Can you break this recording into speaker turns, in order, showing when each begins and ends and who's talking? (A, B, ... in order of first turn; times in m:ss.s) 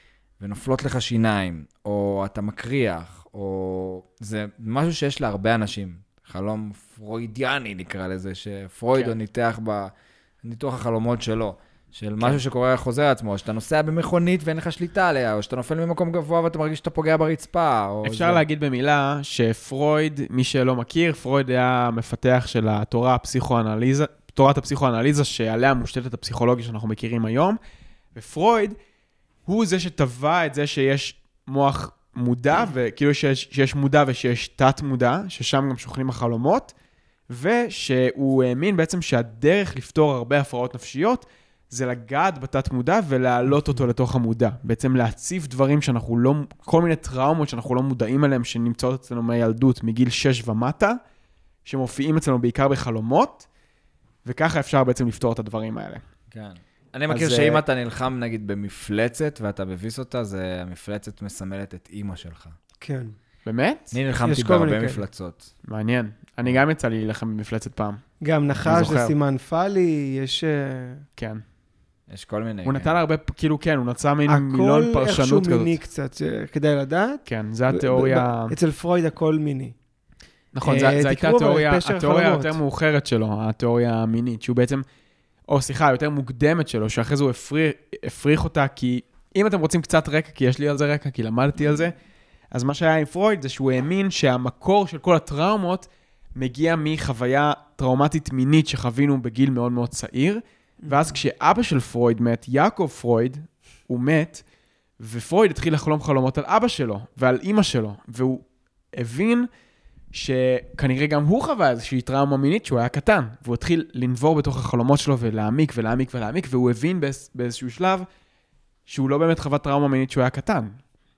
0:00.4-0:18.4 A
0:18.0-0:27.6 B
0:28.2-0:28.8 B
0:29.5-0:36.7 B
0:37.3-0:51.0 B
0:51.6-0:53.5 B
0:54.2-0:56.0 B
0:56.3-1:02.6 A
0:57.1-0:57.6 B
1:02.8-1:03.2 C
1:03.4-1:03.9 B
1:03.9-1:05.5 A
1:04.2-1:05.0 C
1:05.6-1:08.0 B
1:08.2-1:11.0 C
1:08.6-1:09.2 B
1:11.2-1:11.4 B
1:12.1-1:13.0 A
1:12.6-1:15.8 B
1:14.3-1:19.8 C
1:17.3-1:18.5 B
1:20.5-1:24.8 B
1:20.6-1:22.6 C
1:25.5-1:32.0 B
1:32.5-1:44.4 B
1:40.8-1:41.2 C
1:45.0-1:49.5 B
1:50.1-1:58.1 B
1:58.9-2:00.8 B